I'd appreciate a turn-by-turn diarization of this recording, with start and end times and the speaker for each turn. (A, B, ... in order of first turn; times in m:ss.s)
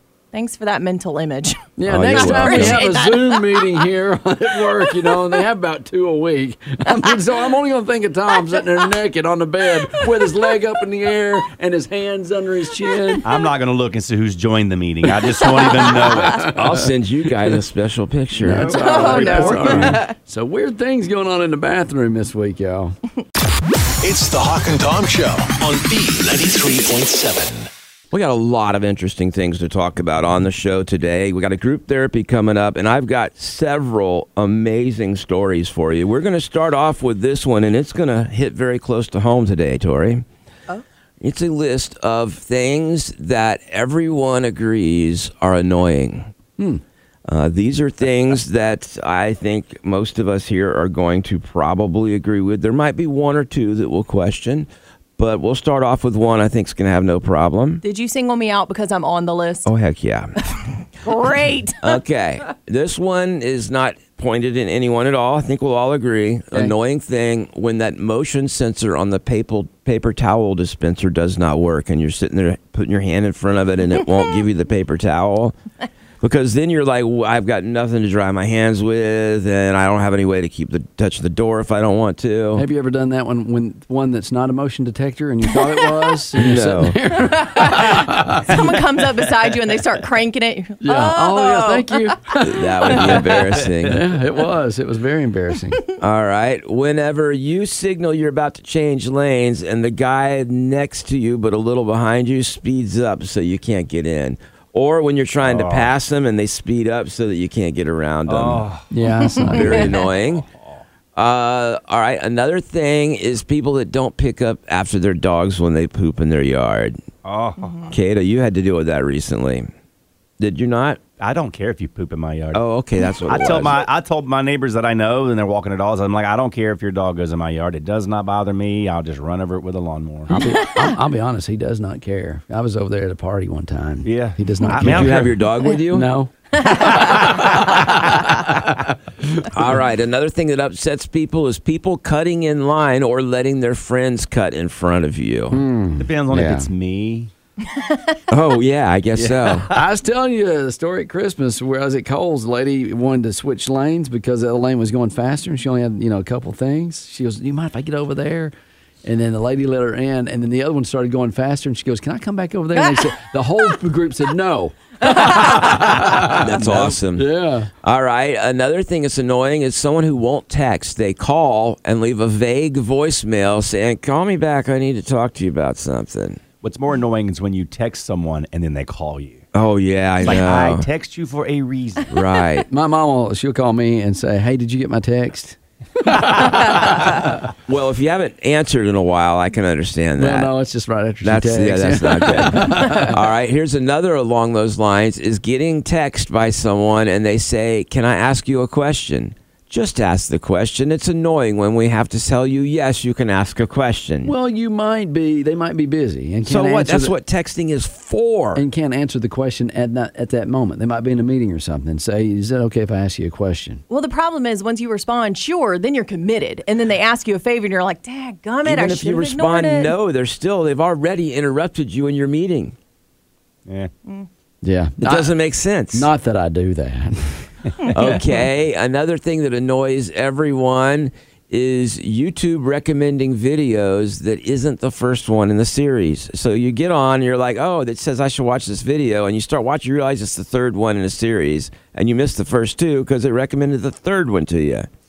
0:00.3-0:03.8 A
0:01.8-0:13.3 B
0:01.9-0:02.8 C
0:04.8-0:05.2 A
0:13.2-0:16.8 D
0:16.2-0:16.8 B
0:16.4-0:18.7 C
0:18.4-0:23.0 B
0:18.5-0:20.0 D
0:18.7-0:20.1 A
0:24.0-0:27.7 E
0:28.1-0:40.2 C
0:41.2-0:46.3 C
0:47.3-0:54.7 C
0:55.2-0:57.8 C
0:57.8-0:59.7 A
0:59.7-1:00.3 C
1:01.0-1:02.0 A
1:01.8-1:15.6 C
1:16.2-1:22.6 C
1:22.6-1:28.5 B
1:26.4-1:27.0 C
1:27.3-1:32.1 A
1:30.8-1:33.2 B
1:32.4-1:34.0 C
1:33.6-1:34.0 D
1:33.9-1:35.8 B
1:36.0-1:48.7 C
1:45.4-1:45.9 D
1:48.3-1:48.9 D
1:48.9-1:49.9 B
1:49.4-1:50.8 D
1:49.5-1:50.5 C
1:51.2-1:57.0 C
1:57.2-1:57.9 D
1:57.6-1:57.9 A
1:57.9-1:59.7 C
2:00.4-2:01.0 C
2:01.2-2:02.6 D
2:02.5-2:03.8 C
2:03.2-2:10.6 D
2:10.3-2:17.9 B
2:14.0-2:15.3 D
2:14.8-2:16.1 C
2:16.7-2:17.0 A
2:19.5-2:25.6 C
2:25.5-2:26.7 B
2:26.0-2:27.3 D
2:28.3-2:29.7 C
2:29.2-2:38.5 B
2:39.0-2:47.7 B
2:42.8-2:43.0 A
2:45.1-2:45.4 A
2:46.2-2:47.3 C
2:47.8-2:56.4 C
2:56.6-2:59.4 D
2:59.5-3:00.9 C
3:00.2-3:02.2 D
3:02.1-3:02.7 C
3:02.7-3:07.2 B
3:07.7-3:10.5 C
3:10.2-3:13.2 B
3:11.2-3:24.3 C
3:24.2-3:27.2 B
3:26.4-3:28.6 C
3:28.6-3:33.8 B
3:33.9-3:39.9 A
3:38.6-3:42.8 C
3:43.7-3:43.9 D
3:44.6-3:45.3 B
3:45.0-3:46.1 C
3:45.9-3:47.6 B
3:47.8-3:48.2 A
3:47.9-4:04.9 C